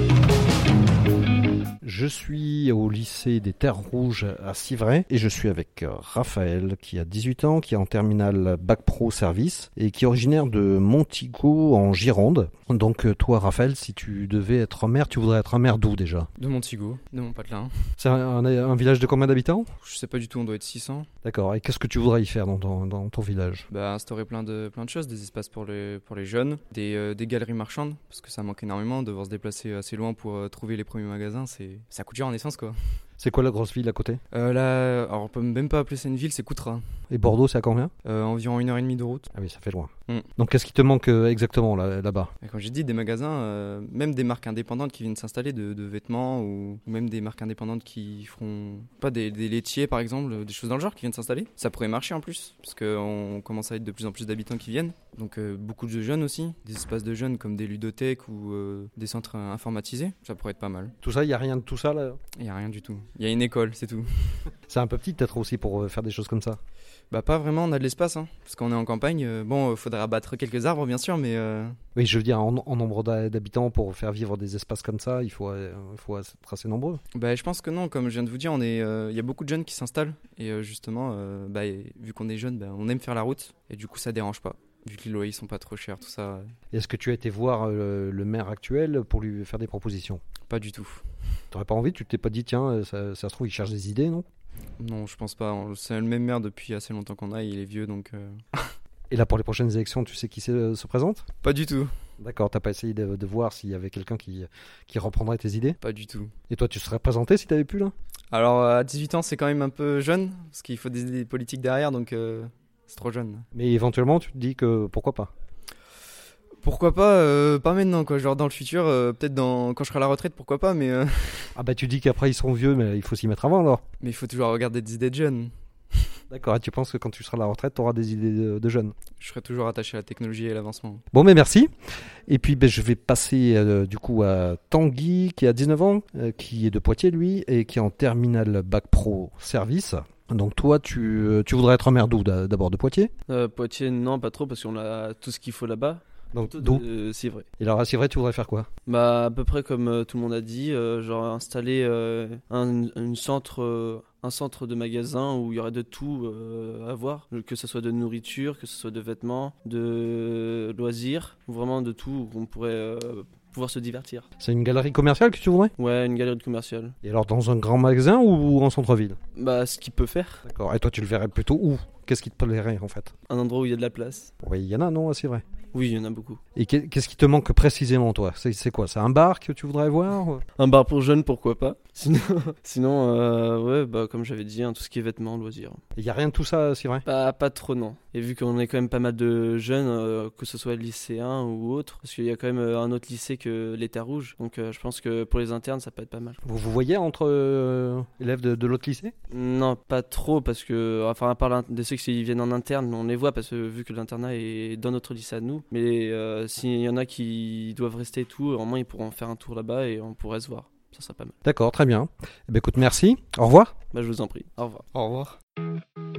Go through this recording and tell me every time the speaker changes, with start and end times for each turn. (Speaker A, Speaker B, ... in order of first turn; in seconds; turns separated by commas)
Speaker A: 1.8-16.3, Speaker B: 16.4-17.7, Speaker A: 18.0-19.7, Speaker B: 19.8-21.1, Speaker A: 21.2-23.7, Speaker B: 23.7-32.8, Speaker A: 33.2-34.2, Speaker B: 34.3-36.8, Speaker A: 37.1-37.9, Speaker B: 38.0-39.3, Speaker A: 39.3-42.3, Speaker B: 42.4-60.9, Speaker A: 61.0-62.2, Speaker B: 62.4-64.5, Speaker A: 64.7-66.6, Speaker B: 67.1-71.8, Speaker A: 72.0-77.0, Speaker B: 77.1-86.5, Speaker A: 86.7-90.2, Speaker B: 90.5-91.0, Speaker A: 91.5-94.2, Speaker B: 94.8-98.7, Speaker A: 99.1-101.2, Speaker B: 101.4-101.9, Speaker A: 102.2-105.8, Speaker B: 105.8-106.3, Speaker A: 106.5-107.9, Speaker B: 108.3-113.5, Speaker A: 113.5-115.3, Speaker B: 116.6-121.5, Speaker A: 121.5-123.8, Speaker B: 124.0-126.1, Speaker A: 126.3-128.9, Speaker B: 129.2-131.0, Speaker A: 131.1-131.7, Speaker A: 132.3-143.1, Speaker C: 143.3-147.4, Speaker A: 146.3-146.8, Speaker A: 147.6-148.7, Speaker C: 148.9-164.2, Speaker A: 164.4-165.7, Speaker C: 165.8-166.9, Speaker A: 167.0-169.2, Speaker C: 169.3-170.4, Speaker A: 170.4-173.1, Speaker C: 173.3-174.3, Speaker A: 174.4-175.4, Speaker C: 175.7-176.4, Speaker A: 176.5-180.4, Speaker C: 180.6-185.8, Speaker A: 185.9-187.0, Speaker C: 187.0-196.4, Speaker A: 196.4-199.1, Speaker C: 199.3-211.3, Speaker A: 211.4-213.7, Speaker C: 213.9-214.8, Speaker B: 214.9-215.4